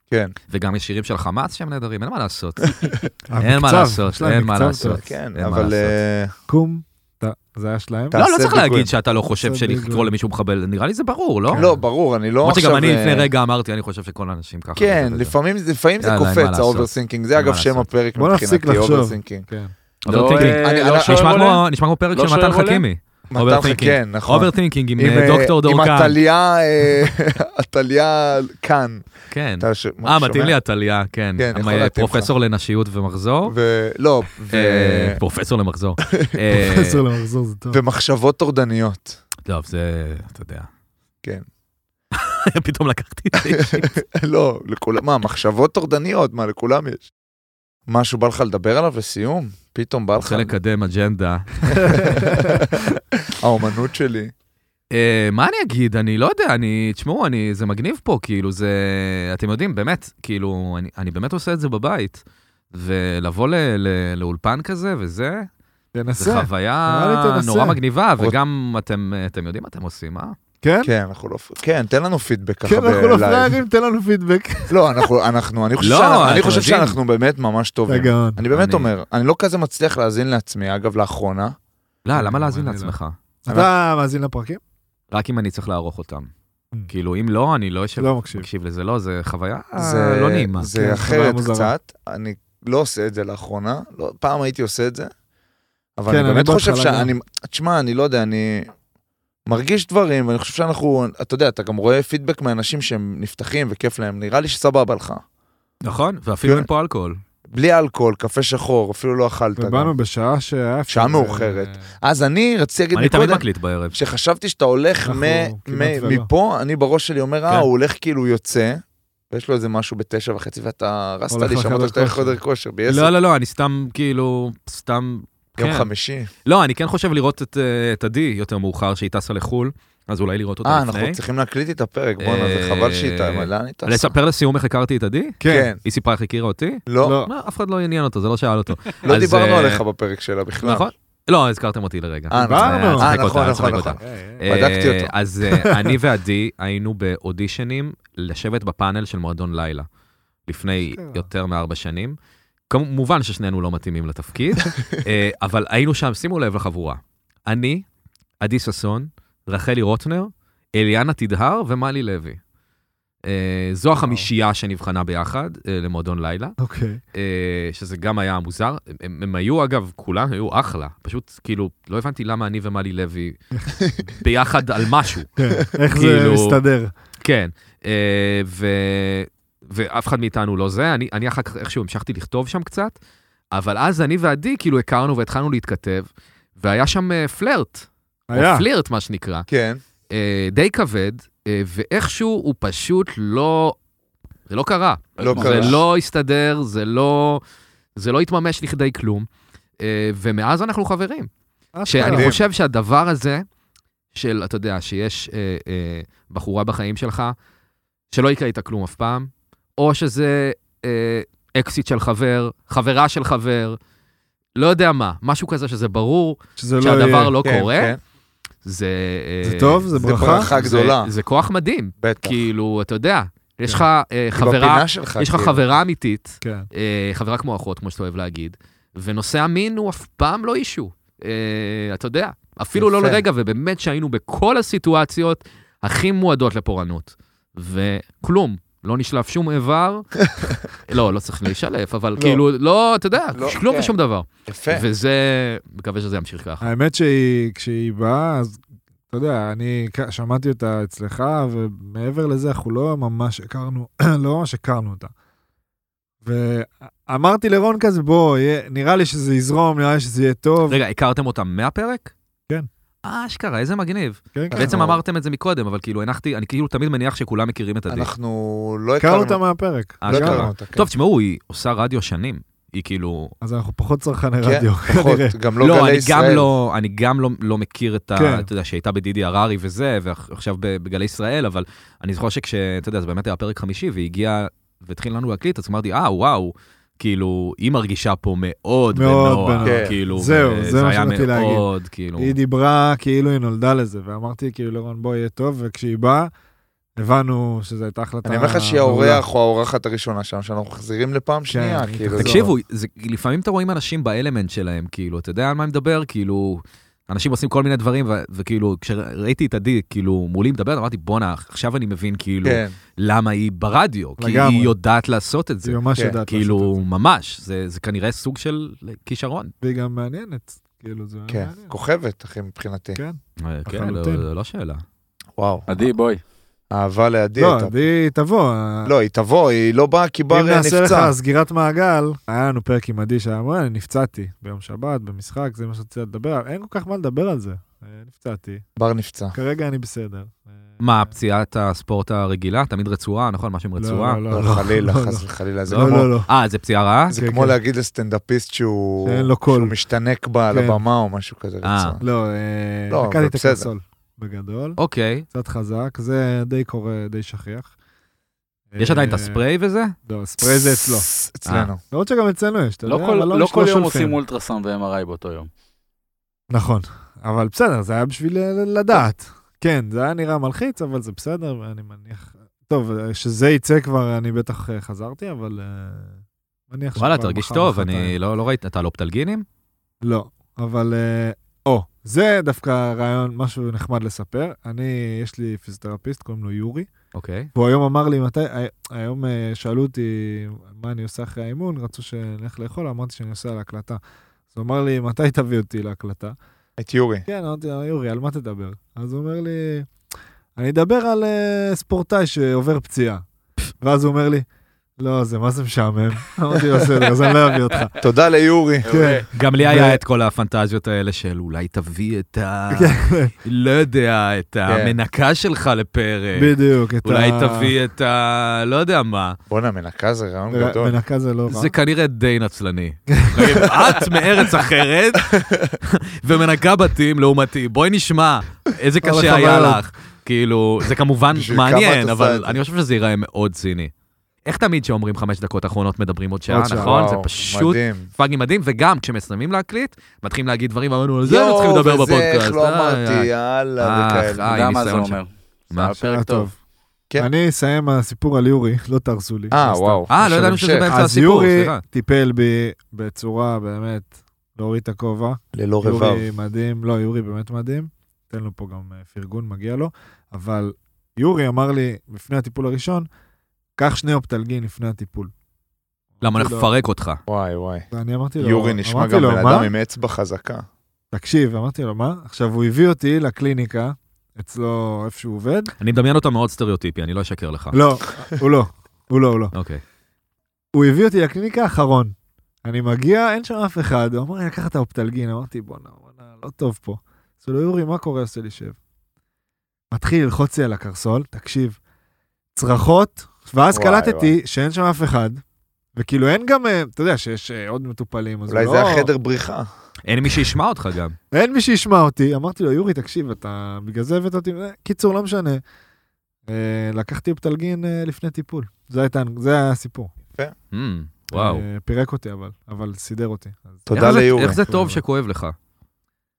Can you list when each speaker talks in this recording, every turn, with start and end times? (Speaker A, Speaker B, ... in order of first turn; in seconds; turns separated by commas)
Speaker A: 0.5-2.8, Speaker B: 2.8-3.0, Speaker C: 3.3-5.0, Speaker A: 3.4-5.9, Speaker B: 4.8-6.3, Speaker C: 6.5-8.2, Speaker B: 8.1-8.9, Speaker A: 8.2-11.7, Speaker C: 9.4-10.1, Speaker C: 11.5-11.8, Speaker B: 11.5-13.3, Speaker A: 12.4-15.3, Speaker B: 14.8-19.5, Speaker A: 16.0-17.9, Speaker C: 18.2-19.7, Speaker A: 20.0-26.2, Speaker D: 20.1-21.6, Speaker B: 20.3-21.4, Speaker D: 22.1-22.9, Speaker B: 23.3-29.1, Speaker A: 29.3-33.5, Speaker B: 29.6-30.6, Speaker B: 31.4-32.3, Speaker B: 33.5-35.2, Speaker A: 34.5-37.0, Speaker C: 36.5-37.8, Speaker B: 37.7-39.2, Speaker A: 39.5-40.7, Speaker A: 42.1-44.0, Speaker B: 43.5-47.1, Speaker B: 47.9-50.5, Speaker A: 50.2-52.4, Speaker B: 51.7-54.3, Speaker A: 54.9-62.2, Speaker A: 62.7-65.5, Speaker C: 66.0-67.8, Speaker A: 66.2-70.4, Speaker C: 70.6-70.9, Speaker B: 70.8-73.6, Speaker C: 72.7-75.0, Speaker B: 74.7-81.5, Speaker A: 75.8-77.0, Speaker C: 77.9-78.4, Speaker A: 78.5-78.9, Speaker A: 82.0-83.2, Speaker C: 82.2-83.0, Speaker C: 83.5-84.6, Speaker A: 85.1-86.3, Speaker A: 86.9-90.7, Speaker C: 88.0-88.5, Speaker B: 89.8-95.1, Speaker C: 90.8-91.7, Speaker B: 96.0-98.7, Speaker C: 96.1-97.1, Speaker B: 99.5-105.2, Speaker A: 105.8-107.2, Speaker B: 106.4-106.7, Speaker B: 107.5-109.9, Speaker C: 109.6-111.9, Speaker B: 110.9-123.1, Speaker A: 112.9-114.0, Speaker C: 115.0-116.3, Speaker C: 121.3-122.4, Speaker A: 122.9-125.9, Speaker B: 125.6-126.3, Speaker A: 126.5-131.2, Speaker B: 130.6-134.2, Speaker A: 132.2-139.8, Speaker C: 135.4-135.7, Speaker B: 135.4-135.8, Speaker B: 136.9-137.2, Speaker C: 137.0-137.3, Speaker B: 139.0-140.9, Speaker A: 140.6-149.9, Speaker B: 142.3-145.1, Speaker C: 142.4-143.2, Speaker C: 144.0-144.6, Speaker C: 145.6-145.9, Speaker A: 150.5-152.2, Speaker C: 150.9-151.3, Speaker A: 152.7-157.8, Speaker A: 158.4-162.4, Speaker A: 163.3-166.6, Speaker C: 166.6-167.0, Speaker A: 167.1-173.4, Speaker C: 173.5-173.8, Speaker A: 174.2-176.6, Speaker C: 175.4-176.9, Speaker A: 177.2-182.9, Speaker A: 183.5-186.1, Speaker A: 186.6-189.5, Speaker C: 188.3-188.7, Speaker B: 189.5-189.8, Speaker A: 190.1-193.8, Speaker A: 194.5-197.4, Speaker D: 195.2-195.8, Speaker B: 195.2-195.8, Speaker A: 198.0-199.3, Speaker A: 199.8-201.3, Speaker C: 201.8-202.3, Speaker A: 201.9-203.4, Speaker B: 202.0-202.4, Speaker A: 204.2-207.3, Speaker A: 208.1-213.8, Speaker A: 214.6-217.9, Speaker C: 216.6-217.3, Speaker B: 217.4-218.0, Speaker A: 218.7-240.2, Speaker C: 219.4-220.5, Speaker B: 220.0-221.1, Speaker B: 222.0-222.4, Speaker B: 224.3-225.7, Speaker C: 226.4-226.7, Speaker B: 232.8-233.2, Speaker A: 240.9-246.6, Speaker B: 243.3-243.9, Speaker B: 244.5-244.9, Speaker C: 246.6-248.6, Speaker C: 249.1-255.1, Speaker C: 256.2-260.8, Speaker A: 260.7-262.1, Speaker A: 263.1-268.1, Speaker C: 264.4-264.7, Speaker B: 264.5-265.0, Speaker B: 267.9-269.4, Speaker C: 269.0-270.5, Speaker A: 270.0-273.3, Speaker B: 270.1-270.9, Speaker C: 273.4-275.4, Speaker B: 274.4-276.5, Speaker A: 275.6-292.3, Speaker C: 278.1-278.5, Speaker C: 288.9-291.6, Speaker B: 289.6-290.0, Speaker C: 292.2-296.3, Speaker C: 297.0-299.3, Speaker B: 298.2-302.4, Speaker C: 301.5-302.5, Speaker A: 302.2-319.5, Speaker B: 312.4-312.8, Speaker C: 314.2-314.7, Speaker C: 315.6-316.7, Speaker C: 319.6-321.7, Speaker B: 321.3-323.0, Speaker C: 323.0-324.3, Speaker A: 323.4-324.8, Speaker B: 325.4-325.8, Speaker D: 325.7-326.2, Speaker B: 326.7-327.8, Speaker C: 327.4-328.9, Speaker B: 328.9-331.1, Speaker C: 330.3-338.6, Speaker B: 338.8-339.4, Speaker C: 339.3-340.6, Speaker A: 340.8-344.2, Speaker C: 343.8-346.3, Speaker B: 344.3-346.1, Speaker A: 345.7-347.1, Speaker B: 347.1-352.0, Speaker C: 347.1-347.6, Speaker C: 349.0-349.7, Speaker C: 350.5-350.8, Speaker A: 351.6-352.0, Speaker C: 352.0-354.8, Speaker B: 352.9-353.7, Speaker A: 354.8-355.3, Speaker C: 355.3-357.7, Speaker C: 358.7-359.4, Speaker A: 358.8-359.9, Speaker C: 360.1-361.1, Speaker B: 360.4-361.8, Speaker A: 361.5-361.7, Speaker C: 361.9-364.2, Speaker D: 362.9-365.5, Speaker C: 366.5-376.2, Speaker C: 376.7-378.1, Speaker A: 377.0-379.4, Speaker C: 380.0-386.9, Speaker A: 387.1-387.5, Speaker C: 387.6-394.0, Speaker C: 394.5-396.4, Speaker B: 396.8-397.2, Speaker C: 397.3-399.9, Speaker C: 400.6-403.2, Speaker C: 403.8-404.5, Speaker C: 405.0-408.0, Speaker B: 408.0-409.0, Speaker D: 408.8-409.3, Speaker C: 408.9-410.0, Speaker A: 409.3-419.4, Speaker C: 412.7-413.3, Speaker B: 414.7-415.0, Speaker C: 416.4-417.7, Speaker B: 419.5-420.9, Speaker C: 420.5-421.7, Speaker A: 421.5-433.9, Speaker C: 423.1-423.4, Speaker B: 423.7-424.2, Speaker B: 425.2-425.8, Speaker C: 429.0-429.8, Speaker B: 431.3-432.6, Speaker A: 434.4-443.3, Speaker C: 436.5-436.9, Speaker B: 436.7-438.1, Speaker B: 441.2-444.5, Speaker A: 443.8-445.9, Speaker D: 444.5-446.5, Speaker C: 446.0-446.6, Speaker C: 447.2-450.1, Speaker B: 449.5-450.9, Speaker A: 450.1-451.8, Speaker C: 450.9-463.1, Speaker B: 455.5-456.3, Speaker C: 463.8-465.3, Speaker C: 466.2-466.7, Speaker A: 466.2-467.2, Speaker B: 467.3-467.9, Speaker C: 467.9-469.7, Speaker B: 468.4-470.6, Speaker C: 471.1-475.7, Speaker A: 475.8-477.8, Speaker C: 477.7-479.5, Speaker A: 479.5-479.8, Speaker C: 480.7-488.8, Speaker C: 489.9-491.8, Speaker C: 492.6-495.4, Speaker B: 493.7-494.4, Speaker C: 496.0-499.1, Speaker B: 498.5-499.7, Speaker A: 500.1-501.2, Speaker C: 501.3-505.6, Speaker C: 506.5-510.1, Speaker A: 510.7-511.6, Speaker C: 511.3-514.1, Speaker B: 513.9-514.6, Speaker A: 513.9-515.5, Speaker C: 514.6-515.0